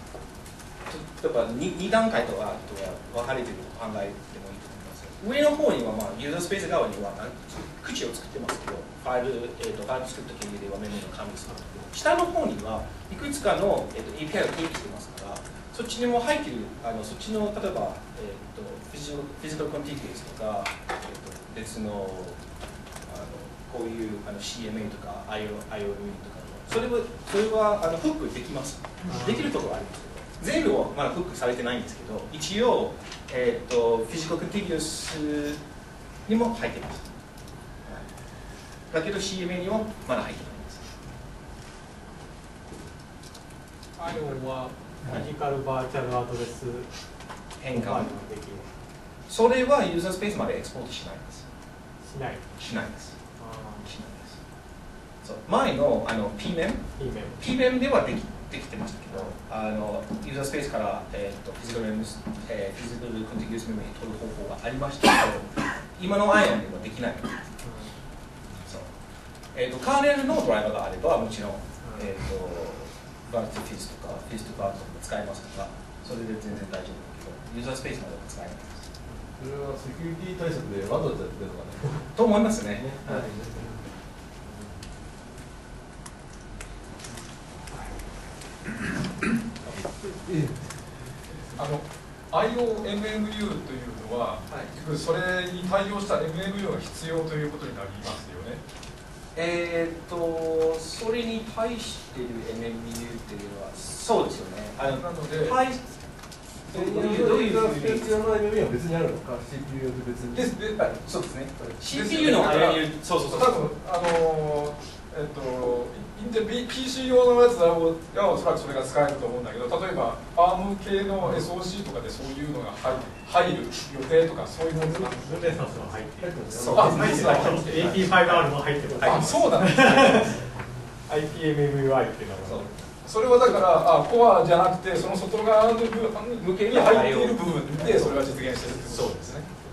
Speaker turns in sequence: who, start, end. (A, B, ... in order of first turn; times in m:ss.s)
0:00.9-0:22.4 A
0:23.0-0:35.6 A
0:29.1-0:29.5 B
0:36.2-0:37.0 A
0:38.9-0:40.9 A
0:44.0-0:46.9 B
0:47.6-0:48.1 A
0:47.7-0:48.7 B
0:49.3-0:51.4 A
0:52.0-0:52.5 B
0:52.6-0:53.2 A
0:53.4-0:53.9 B
0:53.8-0:54.4 A
0:55.2-0:56.9 A
0:57.0-0:57.4 B
0:57.4-1:07.5 A
1:07.6-1:07.9 B
1:08.6-1:08.9 A
1:09.5-1:18.9 A
1:19.4-1:22.0 C
1:22.1-1:23.3 A
1:22.8-1:23.8 C
1:24.4-1:24.8 C
1:29.6-1:30.7 C
1:31.5-1:38.6 D
1:39.3-1:46.1 A
1:44.8-1:45.6 D
1:46.7-1:48.1 A
1:46.7-1:50.5 C
1:50.3-2:05.9 D
1:51.0-1:53.7 A
2:04.7-2:10.4 B
2:06.2-2:07.2 C
2:06.6-2:09.4 A
2:06.7-2:08.0 D
2:09.0-2:10.4 D
2:11.1-2:12.8 B
2:13.0-2:19.4 D
2:16.4-2:18.2 A